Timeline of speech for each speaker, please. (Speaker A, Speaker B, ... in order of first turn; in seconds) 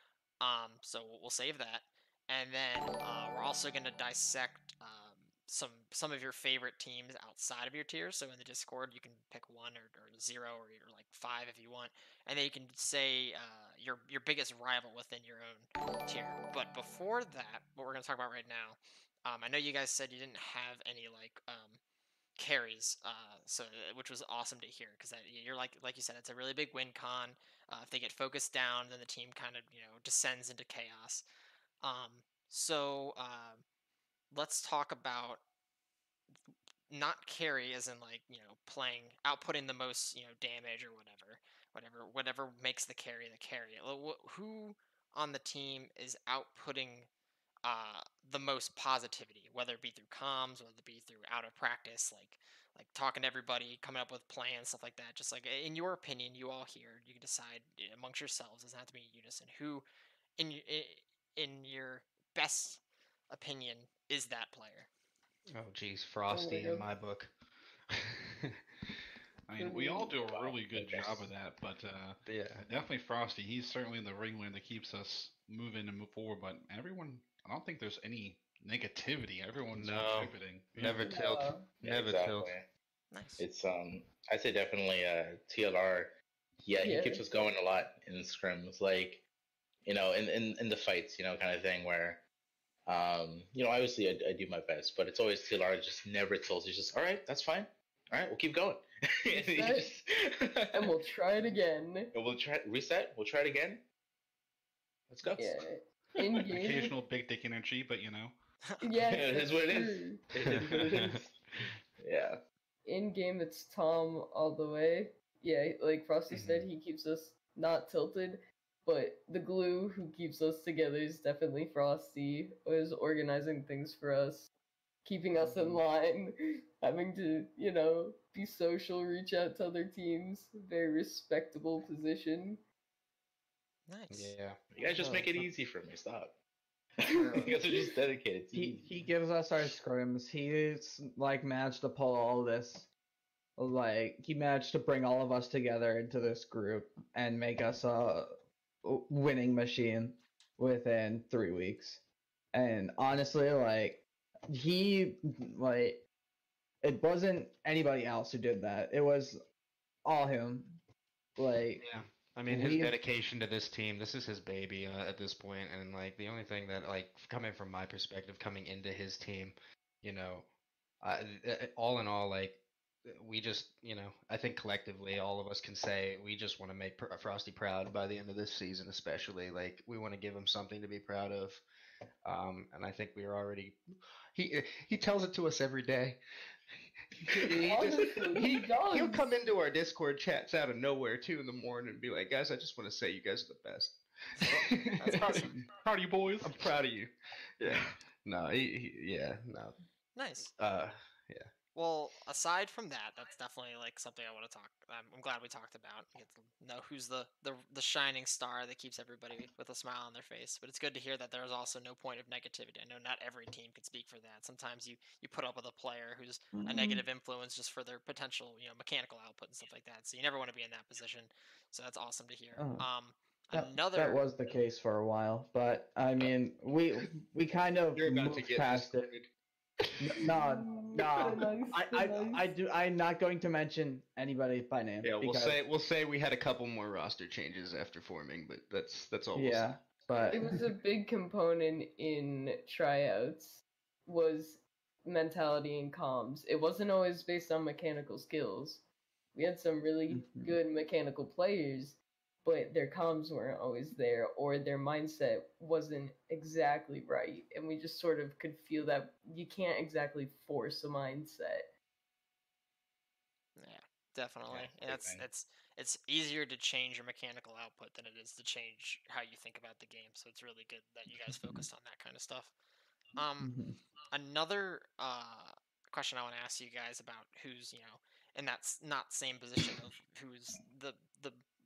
Speaker A: 0.4-21.8, 22.4-31.2, 31.8-33.6, 34.3-35.4, 36.9-47.1, 47.6-59.9, 60.4-64.9, 83.1-83.4, 133.9-134.3, 194.4-195.6, 200.2-200.5, 201.7-224.2, 263.6-272.5, 273.1-273.5, 274.1-281.4
Speaker B: 65.5-67.3, 67.9-68.6, 72.3-72.7, 79.8-82.5, 110.5-111.2, 116.3-116.7, 134.1-134.6, 161.8-170.4, 171.0-181.6, 182.2-183.8, 184.3-186.2, 187.3-195.4, 196.4-199.7, 200.4-201.5, 227.9-229.3, 235.0-239.7
Speaker C: 66.3-66.8, 69.6-70.2, 81.0-81.7, 86.8-87.2, 99.3-99.9, 100.7-102.1, 105.3-106.9, 108.8-110.2, 112.8-124.5, 125.0-132.6, 137.2-137.8, 187.4-189.3, 230.3-232.4, 240.3-248.8, 249.3-261.7
Speaker D: 69.5-81.0, 106.4-108.3, 195.7-196.7
Speaker E: 70.3-71.3, 81.8-82.7, 83.4-86.1, 86.6-89.2, 89.8-92.2, 92.8-100.9, 102.1-103.8, 105.1-105.6, 109.0-111.4, 112.0-112.4, 134.8-136.3, 137.0-139.0, 264.5-265.2
Speaker F: 125.4-125.8, 135.0-135.5, 138.5-142.9, 143.6-148.3, 148.8-156.0, 156.8-159.4, 160.1-160.8, 161.4-161.8, 162.5-162.9, 195.3-195.6, 216.6-217.0, 222.6-222.9, 223.5-229.0, 230.0-235.6, 239.3-240.6, 250.1-250.6, 273.4-273.8